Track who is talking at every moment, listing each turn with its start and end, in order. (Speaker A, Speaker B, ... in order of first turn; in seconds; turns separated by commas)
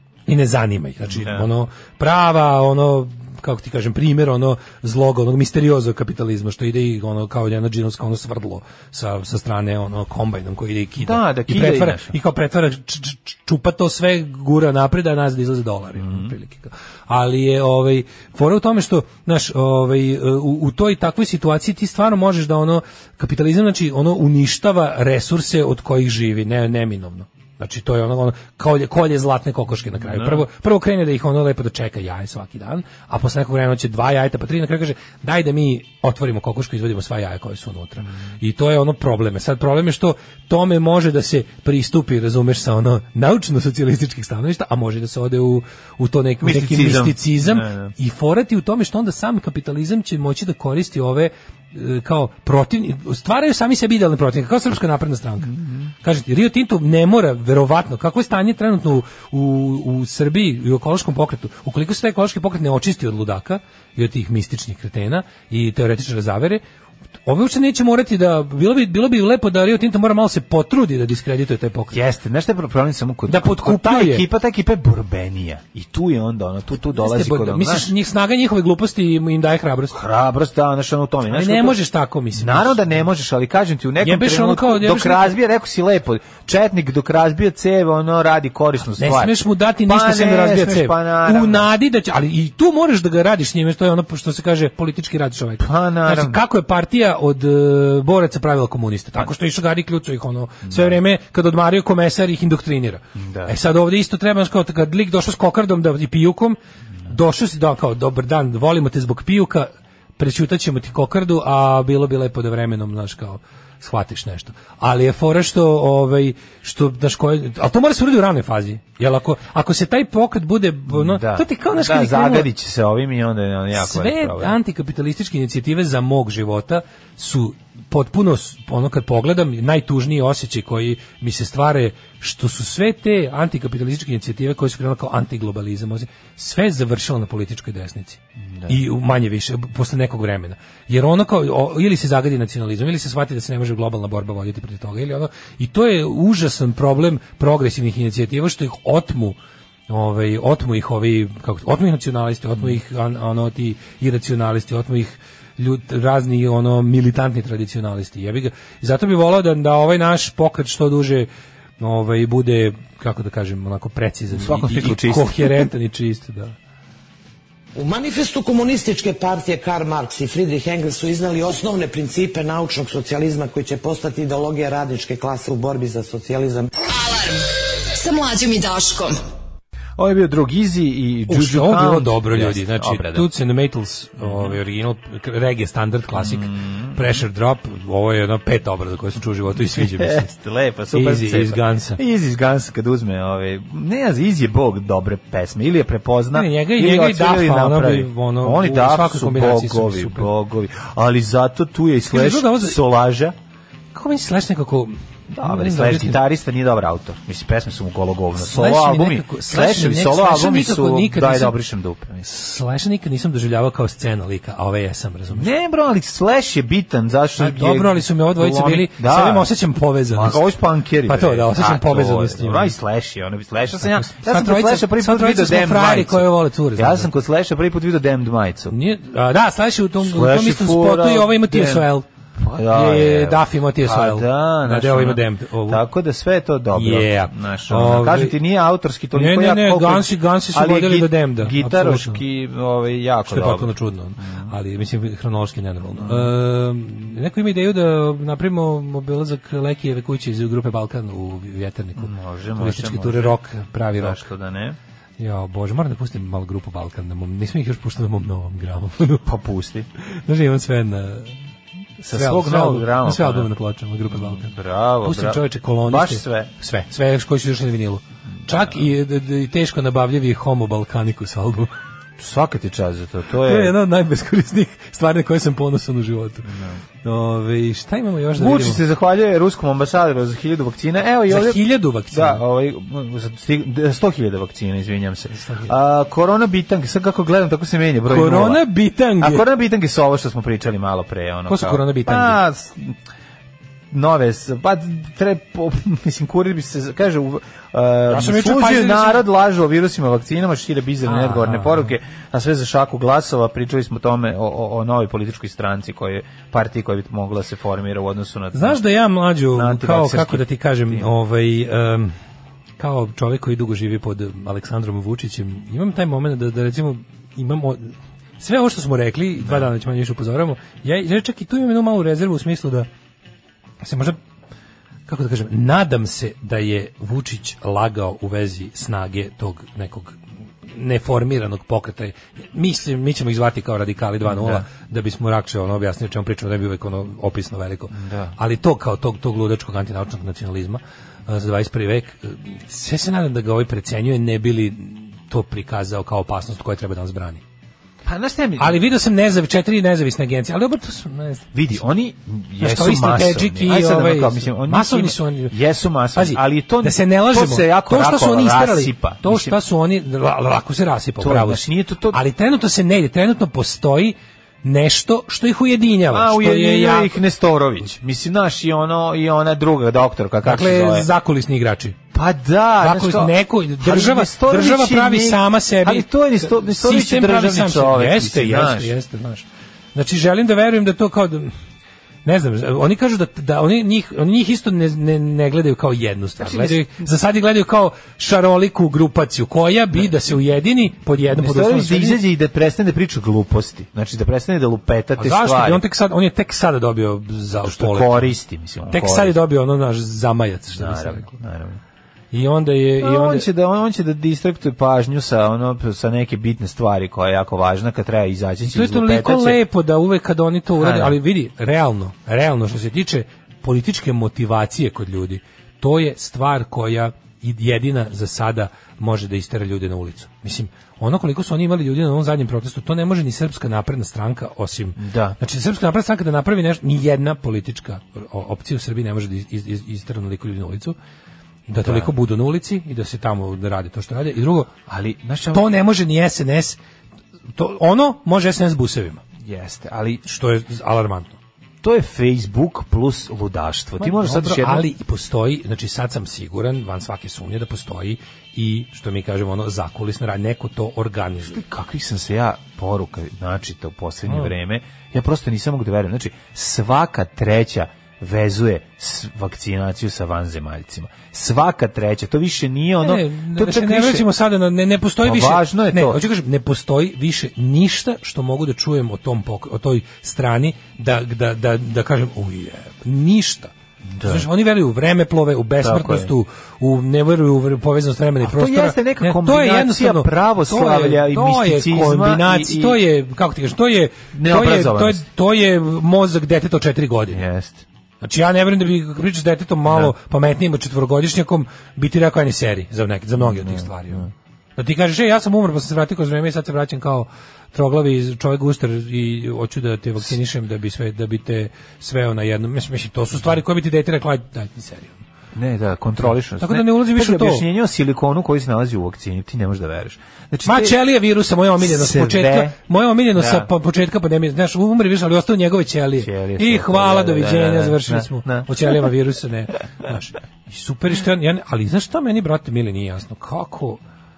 Speaker A: 0.3-66.6, Speaker B: 1.2-1.4, Speaker B: 11.0-12.1, Speaker B: 16.0-16.3, Speaker B: 30.1-30.4, Speaker B: 46.4-47.9, Speaker B: 55.5-55.9, Speaker A: 67.2-72.0, Speaker B: 71.9-77.9, Speaker A: 73.3-74.2, Speaker A: 76.9-80.0, Speaker B: 79.9-81.8, Speaker A: 81.3-82.8, Speaker B: 82.3-89.3, Speaker A: 84.0-85.4, Speaker A: 89.0-122.5, Speaker B: 89.9-91.7, Speaker B: 95.6-96.4, Speaker B: 100.7-100.9, Speaker B: 103.2-103.5, Speaker B: 120.9-124.5, Speaker A: 123.8-149.4, Speaker A: 149.9-166.6, Speaker B: 164.3-165.6, Speaker C: 167.8-176.7, Speaker D: 176.8-179.2, Speaker B: 180.0-183.3, Speaker A: 181.3-190.3, Speaker B: 186.2-187.0, Speaker B: 189.7-203.3, Speaker A: 190.9-192.0, Speaker A: 196.3-200.3, Speaker A: 202.1-202.8, Speaker A: 203.9-206.2, Speaker B: 205.3-212.3, Speaker A: 208.3-211.6, Speaker A: 212.2-215.5, Speaker B: 215.3-219.5, Speaker A: 217.4-220.4, Speaker B: 220.1-226.2, Speaker A: 221.1-222.8, Speaker A: 223.8-227.1, Speaker B: 226.8-228.8, Speaker A: 228.7-232.1, Speaker B: 230.0-231.8, Speaker B: 232.4-244.5, Speaker A: 232.7-235.8, Speaker A: 236.7-238.4, Speaker A: 239.1-242.2, Speaker A: 243.3-254.2, Speaker B: 246.0-246.3, Speaker B: 252.0-253.3, Speaker B: 254.0-254.8, Speaker A: 255.2-259.2, Speaker B: 259.2-259.9, Speaker A: 260.1-261.4, Speaker B: 262.0-263.5, Speaker A: 262.1-264.5, Speaker B: 264.1-266.5, Speaker A: 265.0-271.7, Speaker B: 272.2-273.7, Speaker A: 273.4-278.8, Speaker B: 276.4-276.8, Speaker B: 278.4-281.6, Speaker A: 281.3-282.4, Speaker B: 282.1-288.6, Speaker A: 285.4-285.7, Speaker A: 288.1-289.4, Speaker B: 289.2-292.9, Speaker A: 291.5-292.4, Speaker B: 293.9-308.8, Speaker A: 298.1-299.2, Speaker A: 301.1-301.9, Speaker A: 308.5-312.1, Speaker B: 309.5-311.1, Speaker A: 312.8-322.9, Speaker A: 323.8-324.2, Speaker A: 325.1-347.4, Speaker B: 334.4-334.6, Speaker B: 337.9-338.3, Speaker B: 348.1-348.8, Speaker A: 348.6-351.5, Speaker B: 351.5-359.6, Speaker A: 352.6-355.6, Speaker A: 356.1-367.2, Speaker B: 361.2-362.2, Speaker B: 366.1-371.1, Speaker A: 370.4-372.0, Speaker B: 372.1-378.9, Speaker A: 372.8-381.5, Speaker A: 382.2-392.2, Speaker B: 386.4-386.8, Speaker B: 391.4-395.8, Speaker A: 395.2-398.3, Speaker B: 397.6-399.4, Speaker A: 398.9-401.3, Speaker B: 400.8-401.8, Speaker A: 402.3-403.5, Speaker B: 403.0-409.6, Speaker A: 408.6-431.0, Speaker B: 410.8-411.2, Speaker B: 425.0-425.4, Speaker A: 431.7-434.7, Speaker B: 431.8-432.1, Speaker B: 434.9-435.6, Speaker A: 435.5-436.8, Speaker A: 437.6-439.2, Speaker B: 439.4-440.2, Speaker A: 440.3-441.4, Speaker B: 441.8-444.9, Speaker A: 444.0-451.6, Speaker B: 451.5-464.3, Speaker A: 463.0-473.7, Speaker B: 465.2-466.2, Speaker B: 474.1-474.5, Speaker A: 474.2-487.4, Speaker B: 475.8-476.3, Speaker B: 478.4-483.0, Speaker B: 484.3-485.2, Speaker B: 487.3-487.8, Speaker A: 488.2-494.3, Speaker B: 493.5-494.3, Speaker A: 494.8-505.2, Speaker B: 505.6-511.0, Speaker A: 506.3-507.7, Speaker A: 510.6-524.0, Speaker B: 511.8-512.8, Speaker B: 513.4-513.7, Speaker B: 516.2-518.7